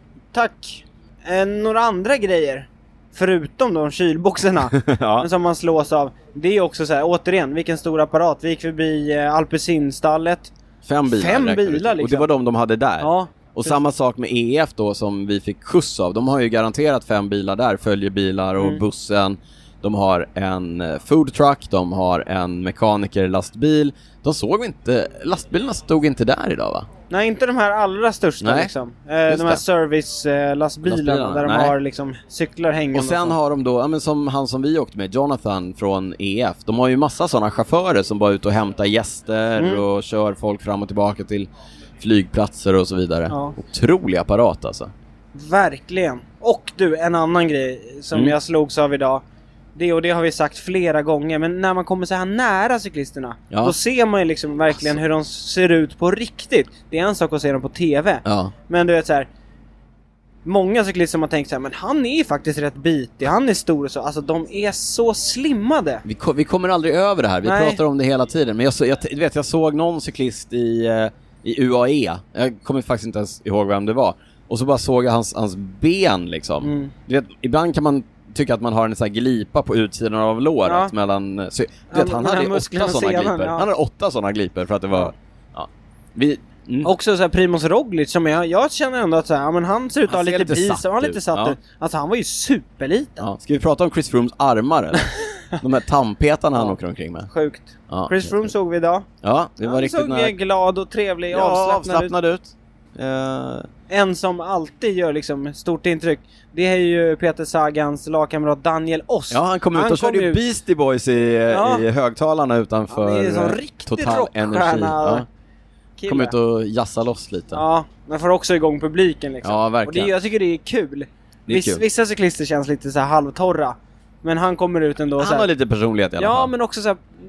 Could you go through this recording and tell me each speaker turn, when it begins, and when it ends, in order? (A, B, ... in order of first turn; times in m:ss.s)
0:00.3-0:10.5 A
0:04.7-0:05.3 B
0:10.8-0:26.9 B
0:11.1-0:12.3 A
0:13.0-0:13.7 A
0:27.1-0:33.4 A
0:28.4-0:28.7 B
0:29.3-0:29.6 B
0:30.8-0:31.8 B
0:32.9-0:41.5 B
0:39.6-0:39.8 A
0:42.0-0:44.9 B
0:43.3-0:43.6 A
0:45.3-0:49.2 A
0:49.7-0:59.3 A
0:58.2-0:58.5 B
1:00.4-1:06.0 A
1:06.0-1:26.9 B
1:07.4-1:07.8 A
1:16.6-1:16.9 A
1:20.6-1:20.9 A
1:21.9-1:23.7 A
1:26.8-1:33.3 A
1:30.1-1:31.6 B
1:33.2-1:37.3 B
1:37.3-1:39.0 A
1:37.9-1:38.5 B
1:39.2-1:40.3 B
1:39.6-1:42.1 A
1:41.3-1:43.7 B
1:43.9-1:50.4 A
1:49.3-1:55.2 B
1:51.5-1:51.8 A
1:52.9-1:55.2 A
1:56.0-1:56.3 A
1:56.1-1:57.6 B
1:57.5-2:05.5 A
1:59.4-2:00.1 B
2:01.5-2:01.8 B
2:05.2-2:06.5 B
2:06.2-2:07.0 A